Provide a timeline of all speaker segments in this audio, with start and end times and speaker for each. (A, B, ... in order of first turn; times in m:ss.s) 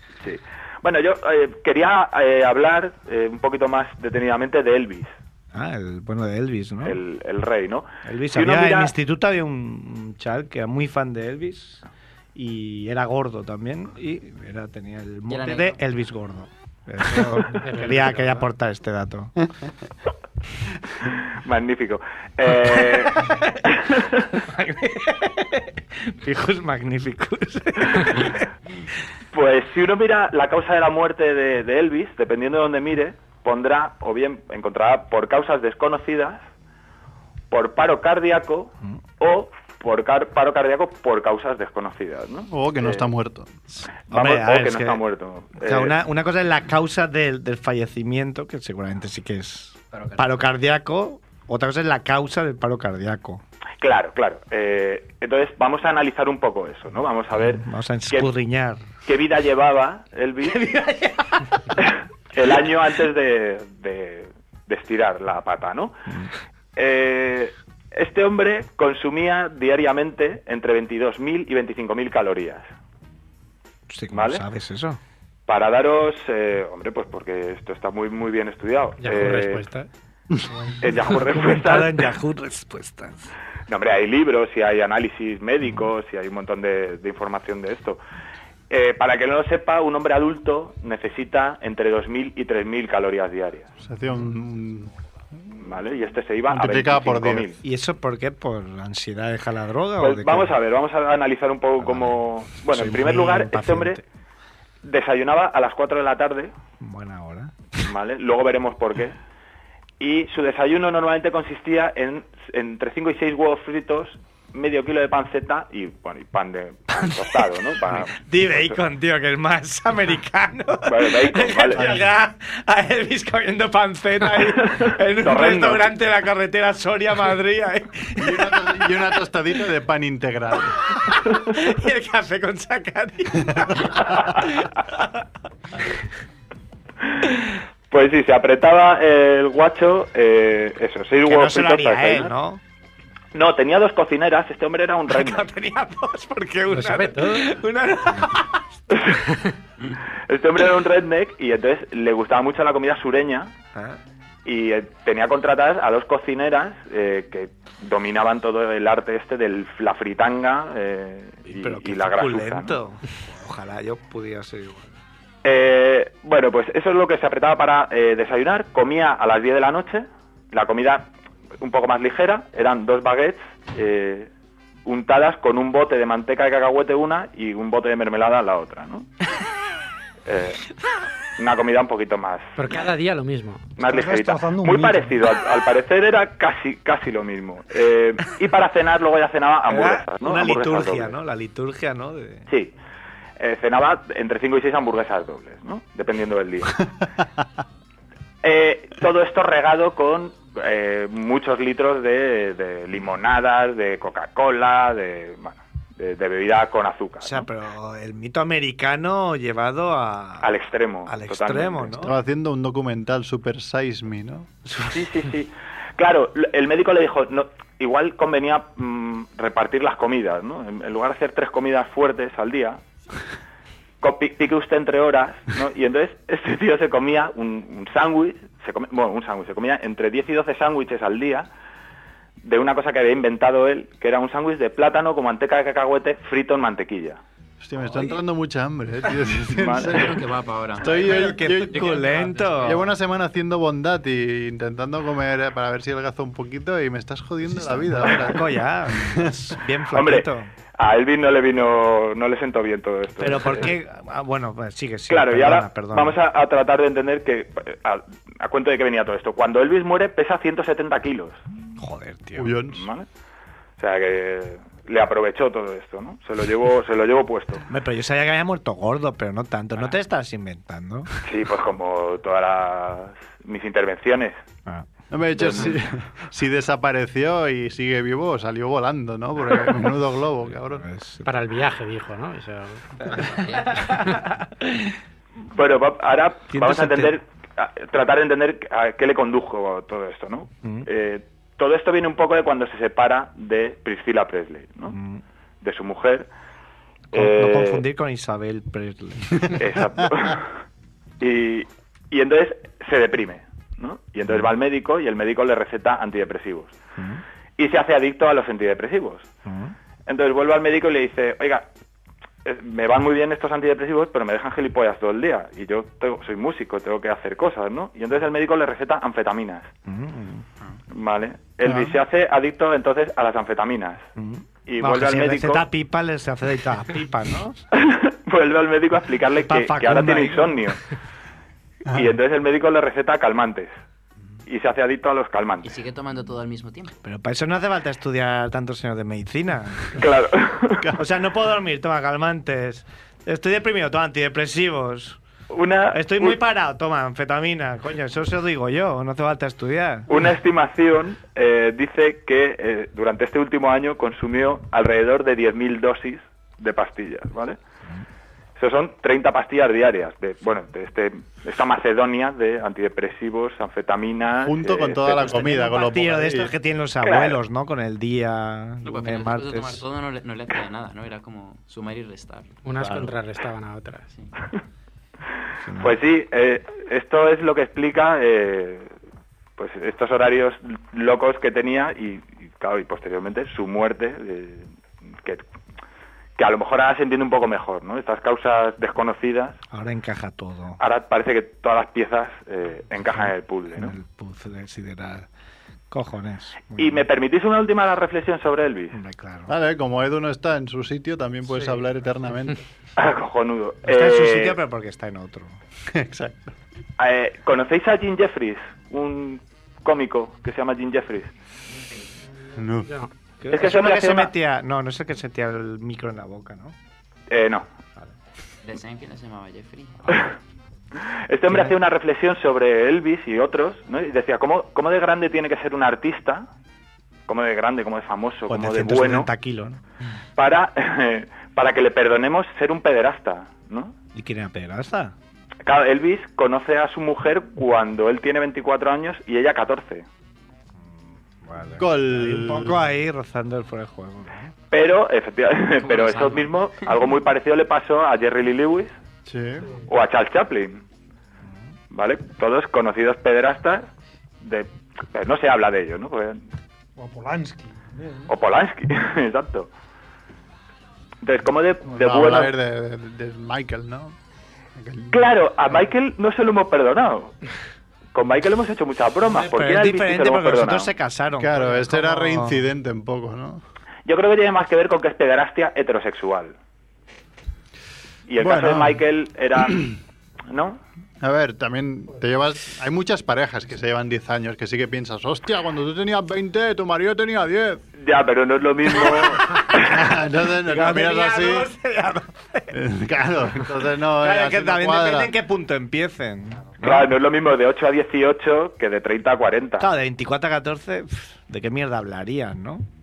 0:00.2-0:05.1 A
0:05.5-0:07.0 B
0:06.8-0:08.9 A
0:08.0-0:11.8 B
0:12.3-0:19.5 B
0:15.3-0:15.8 C
0:17.6-0:18.4 D
0:21.4-0:24.3 A
0:22.6-0:23.6 B
0:24.4-0:28.4 B
0:29.3-0:36.4 A
0:37.5-0:43.1 A
0:42.5-0:43.5 E
0:44.1-0:45.0 B
0:44.1-0:45.9 A
0:45.6-0:53.4 B
0:49.9-0:50.4 C
0:53.8-0:58.3 A
0:57.4-0:58.8 B
0:59.0-1:00.6 A
1:00.5-1:01.6 B
1:01.8-1:06.0 A
1:06.8-1:12.7 A
1:13.9-1:15.0 B
1:14.1-1:14.4 A
1:15.5-1:19.6 A
1:19.0-1:19.9 D
1:20.8-1:22.1 A
1:21.1-1:23.3 B
1:23.7-1:28.0 A
1:28.7-1:33.7 A
1:33.8-1:34.9 E
1:35.6-1:37.6 A
1:36.5-1:37.5 E
1:37.6-1:40.5 B
1:40.0-1:44.0 A
1:41.8-1:44.0 B
1:44.8-1:46.5 A
1:46.8-1:47.5 B
1:47.8-1:49.2 A
1:50.0-1:58.8 A
1:57.8-2:08.7 B
2:00.8-2:01.9 A
2:01.7-2:02.1 E
2:04.8-2:05.8 A
2:08.2-2:10.8 E
2:11.3-2:15.2 B
2:17.9-2:22.3 A
2:21.3-2:22.6 B
2:23.3-2:25.5 A
2:25.1-2:28.6 B
2:26.7-2:27.5 D
2:28.9-2:29.2 A
2:30.3-2:33.5 A
2:34.4-2:42.8 A
2:41.5-2:44.9 B
2:45.4-2:51.1 A
2:51.6-2:54.3 A
2:54.8-2:59.1 A
3:00.2-3:00.6 A
3:01.4-3:02.6 A
3:02.6-3:03.7 D
3:03.8-3:11.2 A
3:03.8-3:05.1 F
3:09.7-3:12.4 B
3:13.4-3:16.9 A
3:18.4-3:27.5 A
3:27.2-3:30.5 B
3:30.4-3:32.1 A
3:31.1-3:32.1 B
3:32.0-3:34.5 E
3:34.7-3:35.0 B
3:34.9-3:42.8 A
3:44.0-3:51.5 A
3:52.4-3:57.2 A
3:57.6-4:00.2 E
3:59.5-4:00.1 A
3:59.9-4:02.8 C
4:00.8-4:02.0 E
4:00.8-4:02.8 B
4:02.5-4:09.5 E
4:07.6-4:10.5 B
4:09.9-4:13.7 A
4:13.2-4:16.1 B
4:15.1-4:21.4 A
4:21.8-4:22.6 B
4:22.3-4:22.8 E
4:22.7-4:23.1 A
4:23.8-4:27.6 A
4:27.7-4:31.1 B
4:31.2-4:34.4 A
4:35.1-4:40.8 E
4:40.7-4:41.3 B
4:41.2-4:42.8 D
4:43.0-4:44.9 B
4:43.3-4:43.8 C
4:45.5-4:55.0 A
4:46.5-4:47.1 B
4:54.9-4:55.2 B
4:55.6-4:56.3 A
4:57.1-4:57.8 A
4:57.1-4:59.6 B
4:59.5-5:00.5 A
5:01.2-5:06.7 A
5:07.0-5:07.2 B
5:07.6-5:09.3 A
5:09.4-5:09.7 B
5:10.1-5:11.6 A
5:12.4-5:19.7 A
5:19.9-5:20.4 B
5:20.9-5:24.0 A
5:21.6-5:22.0 E
5:24.2-5:27.6 B
5:24.6-5:25.6 A
5:27.8-5:30.8 A
5:29.4-5:30.6 B
5:31.9-5:32.1 E
5:31.9-5:33.7 A
5:34.5-5:35.8 A
5:35.6-5:36.9 C
5:37.0-5:40.0 B
5:40.0-5:40.9 A
5:41.0-5:45.2 B
5:45.5-5:46.4 A
5:45.9-5:50.1 B
5:50.1-5:57.6 A
5:58.6-6:05.5 A
6:04.4-6:06.5 E
6:05.3-6:09.8 B
6:07.0-6:07.4 A
6:08.8-6:12.5 C
6:12.6-6:14.0 D
6:12.8-6:13.1 B
6:15.6-6:16.0 B
6:15.8-6:18.9 A
6:19.6-6:24.6 A
6:26.4-6:29.6 A
6:29.7-6:30.8 B
6:30.8-6:33.9 A
6:33.7-6:35.3 B
6:35.9-6:37.0 B
6:36.8-6:39.0 A
6:38.9-6:39.5 B
6:39.5-6:42.6 E
6:43.0-6:44.6 A
6:43.8-6:45.6 B
6:45.9-6:46.5 E
6:47.0-6:51.3 A
6:51.7-6:52.0 C
6:52.5-6:52.9 E
6:53.4-6:56.7 B
6:53.5-6:54.3 A
6:57.3-6:57.6 A
6:58.6-7:00.0 C
7:01.3-7:06.5 A
7:07.3-7:09.3 A
7:08.5-7:09.8 B
7:10.4-7:13.9 A
7:14.1-7:15.1 B
7:15.6-7:20.0 A
7:21.4-7:24.5 B
7:21.8-7:22.8 E
7:24.7-7:28.9 A
7:25.8-7:26.9 C
7:29.2-7:29.6 E
7:29.9-7:30.8 A
7:31.9-7:33.9 A
7:34.4-7:36.4 A
7:37.0-7:38.3 F
7:38.3-7:39.7 A
7:41.2-7:42.5 A
7:41.9-7:44.1 E
7:44.8-7:45.2 E
7:45.1-7:47.4 A
7:48.1-7:50.9 A
7:49.3-7:52.6 B
7:51.4-7:53.6 E
7:54.0-7:56.5 A
7:58.3-8:00.0 A
7:58.4-7:59.0 E
8:00.5-8:00.8 A
8:01.2-8:07.8 E
8:08.0-8:10.0 A
8:09.6-8:11.7 E
8:10.6-8:12.8 B
8:12.7-8:15.4 E
8:14.2-8:17.1 B
8:16.8-8:19.9 A
8:19.8-8:22.8 B